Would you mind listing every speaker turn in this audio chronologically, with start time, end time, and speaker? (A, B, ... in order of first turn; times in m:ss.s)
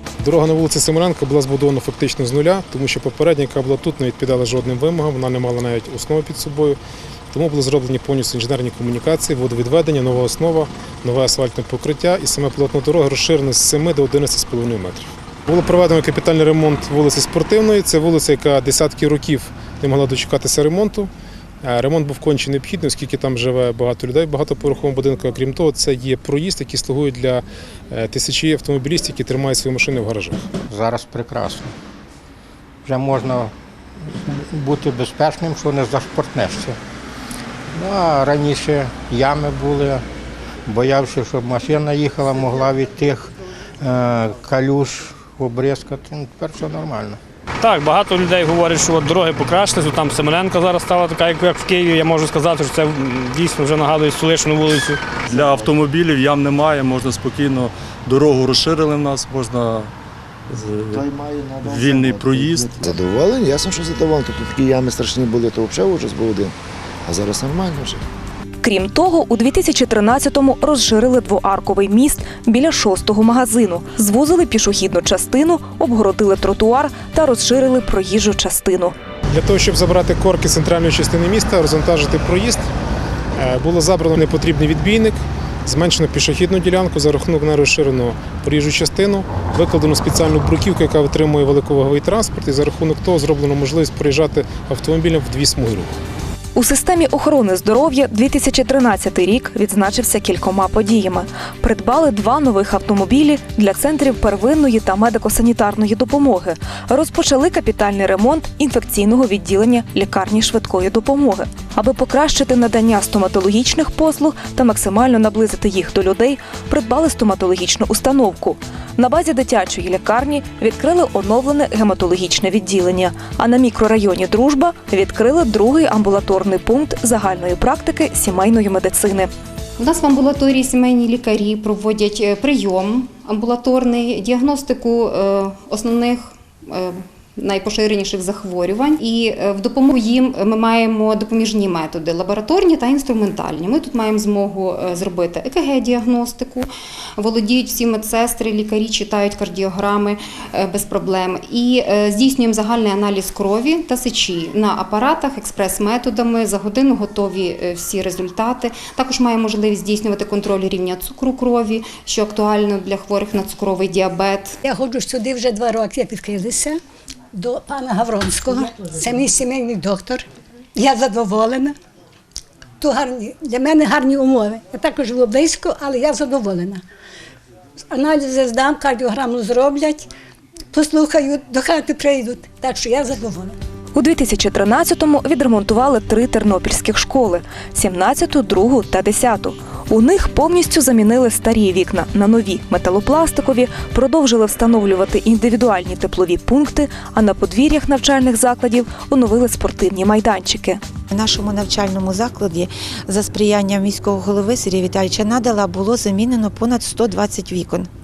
0:00.2-0:06.8 A
0:07.3-0:21.1 A
0:21.6-0:30.5 A
0:30.7-0:31.7 B
0:32.8-0:33.5 B
0:34.2-0:36.8 B
0:37.7-0:40.0 B
0:40.7-0:47.2 B
0:47.6-0:54.9 C
0:55.3-0:59.9 D
0:55.4-0:55.8 E
1:00.6-1:06.5 E
1:00.7-1:01.0 D
1:01.6-1:02.9 D
1:07.0-1:08.0 E
1:08.6-1:18.9 F
1:19.3-1:22.7 A
1:23.3-1:36.0 A
1:36.5-2:09.3 F
2:09.8-2:44.6 G
2:44.6-2:46.8 H
2:47.3-2:50.2 H
2:50.8-2:51.8 H
2:52.8-2:56.8 H
2:57.9-3:00.1 H
3:00.7-3:03.6 H
3:03.9-3:20.8 F
3:21.1-3:27.9 I